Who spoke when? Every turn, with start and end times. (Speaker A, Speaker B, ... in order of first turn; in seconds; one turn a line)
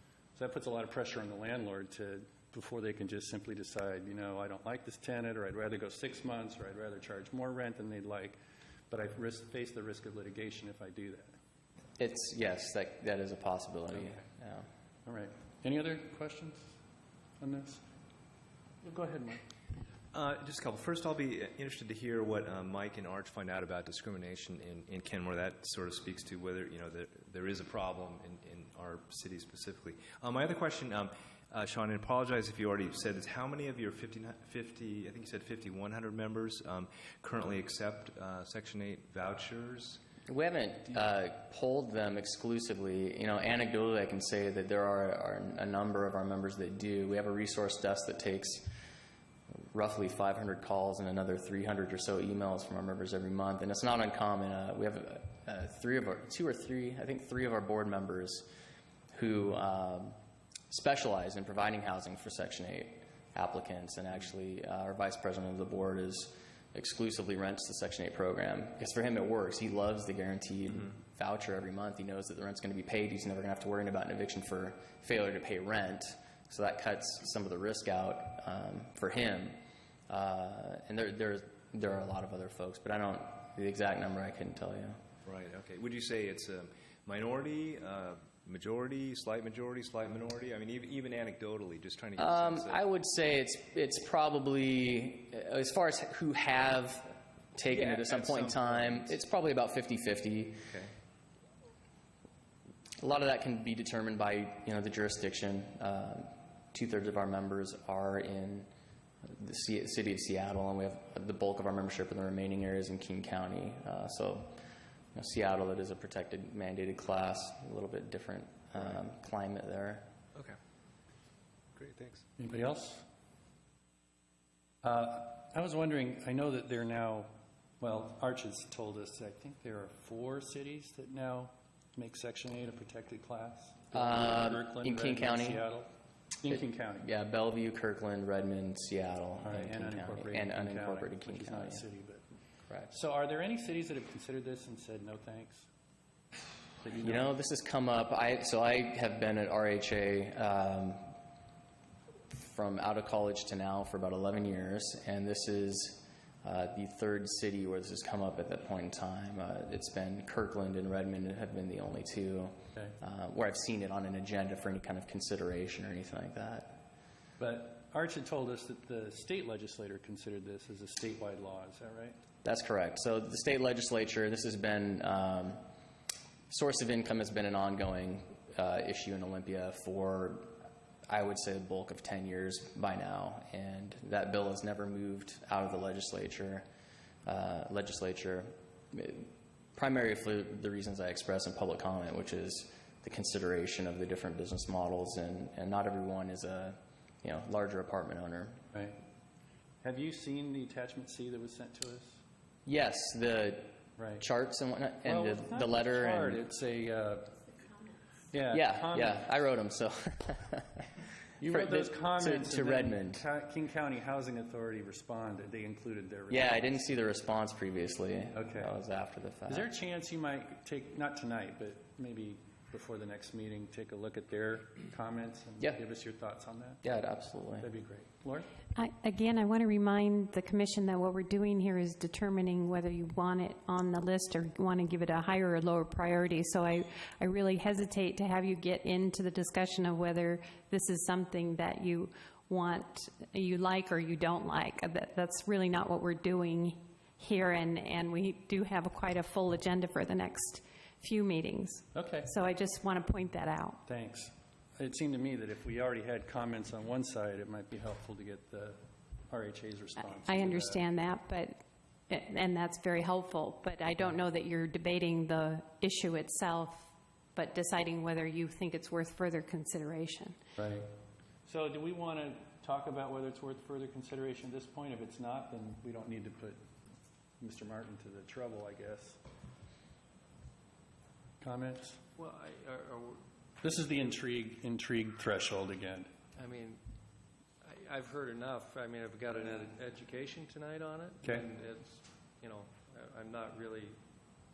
Speaker A: 0.3-8.4
Speaker A: 8.9-11.3
Speaker B: 12.0-14.7
Speaker A: 15.0-16.8
Speaker A: 17.4-17.8
Speaker A: 18.8-19.4
Speaker C: 20.1-40.0
Speaker B: 40.3-48.7
Speaker B: 49.7-58.5
Speaker B: 59.1-60.2
Speaker B: 60.7-85.0
Speaker C: 85.2-92.8
Speaker B: 92.2-100.6
Speaker C: 97.7-99.2
Speaker C: 100.7-100.9
Speaker B: 103.0-108.7
Speaker B: 109.2-114.6
Speaker B: 115.1-120.1
Speaker C: 121.8-122.2
Speaker A: 122.4-123.0
Speaker A: 124.8-135.9
Speaker B: 133.9-135.6
Speaker A: 136.4-137.1
Speaker B: 136.5-141.8
Speaker A: 139.4-142.2
Speaker B: 142.7-142.9
Speaker A: 142.9-145.7
Speaker A: 146.8-147.3
Speaker B: 147.0-151.1
Speaker B: 152.3-166.8
Speaker A: 167.4-172.2
Speaker B: 172.4-175.6
Speaker B: 176.5-186.7
Speaker B: 187.2-198.6
Speaker A: 199.8-202.2
Speaker B: 202.7-206.4
Speaker A: 204.0-204.2
Speaker A: 205.0-207.5
Speaker A: 208.3-209.3
Speaker B: 208.5-210.9
Speaker A: 211.4-216.7
Speaker B: 211.5-213.2
Speaker B: 216.3-219.7
Speaker A: 218.3-218.7
Speaker A: 219.5-226.8
Speaker B: 226.8-227.7
Speaker A: 227.6-228.5
Speaker D: 228.8-253.8
Speaker A: 251.9-252.3
Speaker A: 253.8-260.8
Speaker D: 260.2-270.4
Speaker A: 270.6-270.9
Speaker A: 271.4-276.6
Speaker A: 277.4-279.2
Speaker A: 281.4-282.0
Speaker E: 282.1-283.2
Speaker A: 283.6-286.1
Speaker E: 286.4-286.8
Speaker E: 287.6-294.0
Speaker A: 291.2-291.5